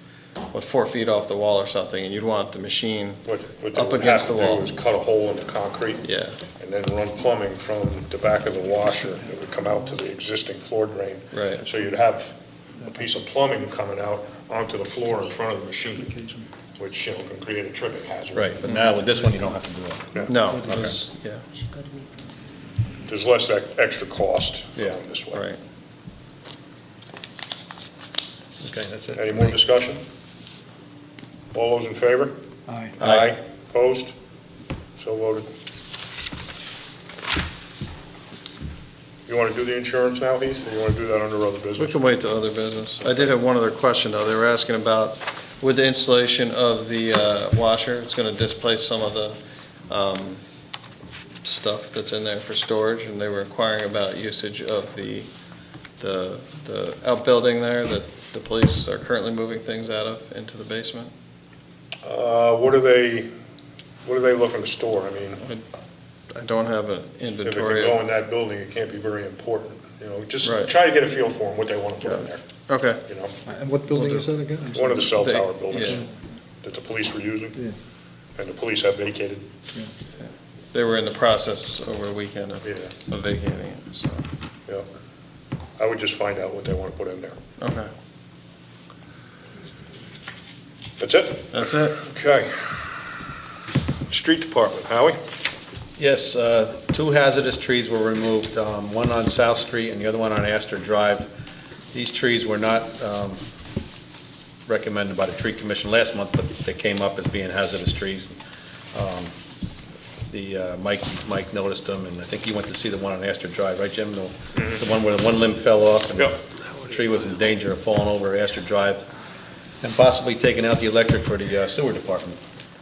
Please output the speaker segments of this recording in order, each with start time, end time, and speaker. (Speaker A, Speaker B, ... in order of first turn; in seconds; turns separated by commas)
Speaker A: 0.5-3.2, Speaker B: 3.2-6.0, Speaker A: 3.7-4.8, Speaker A: 6.0-6.4, Speaker B: 6.6-16.2, Speaker C: 8.8-9.2, Speaker A: 11.3-11.7, Speaker C: 16.1-16.5, Speaker B: 16.8-18.6, Speaker D: 18.3-21.0, Speaker A: 18.7-19.0, Speaker A: 20.2-21.5, Speaker C: 20.6-21.0, Speaker B: 23.1-25.4, Speaker A: 25.3-25.6, Speaker D: 28.6-29.6, Speaker B: 29.1-30.0, Speaker B: 31.5-32.3, Speaker C: 32.7-33.0, Speaker B: 33.0-34.1, Speaker D: 33.0-33.3, Speaker B: 35.0-35.5, Speaker B: 39.3-42.0, Speaker A: 41.8-50.4, Speaker A: 51.4-55.3, Speaker A: 56.0-61.1, Speaker B: 62.0-63.3, Speaker B: 64.0-65.4, Speaker A: 65.4-65.7, Speaker A: 66.3-68.0, Speaker B: 67.4-72.4, Speaker A: 70.4-70.7, Speaker A: 72.0-73.0, Speaker B: 73.1-73.3, Speaker C: 73.5-75.1, Speaker A: 73.9-74.3, Speaker B: 74.7-76.0, Speaker A: 75.1-76.1, Speaker B: 76.6-77.6, Speaker B: 78.4-79.5, Speaker A: 80.2-84.3, Speaker B: 82.6-82.9, Speaker B: 85.8-87.4, Speaker A: 87.6-87.9, Speaker B: 91.0-92.5, Speaker A: 91.5-92.0, Speaker B: 94.1-95.2, Speaker D: 96.0-101.3, Speaker D: 101.9-103.4, Speaker D: 104.7-108.3, Speaker D: 108.9-109.3, Speaker D: 110.3-119.0, Speaker B: 114.5-114.8, Speaker D: 119.8-122.4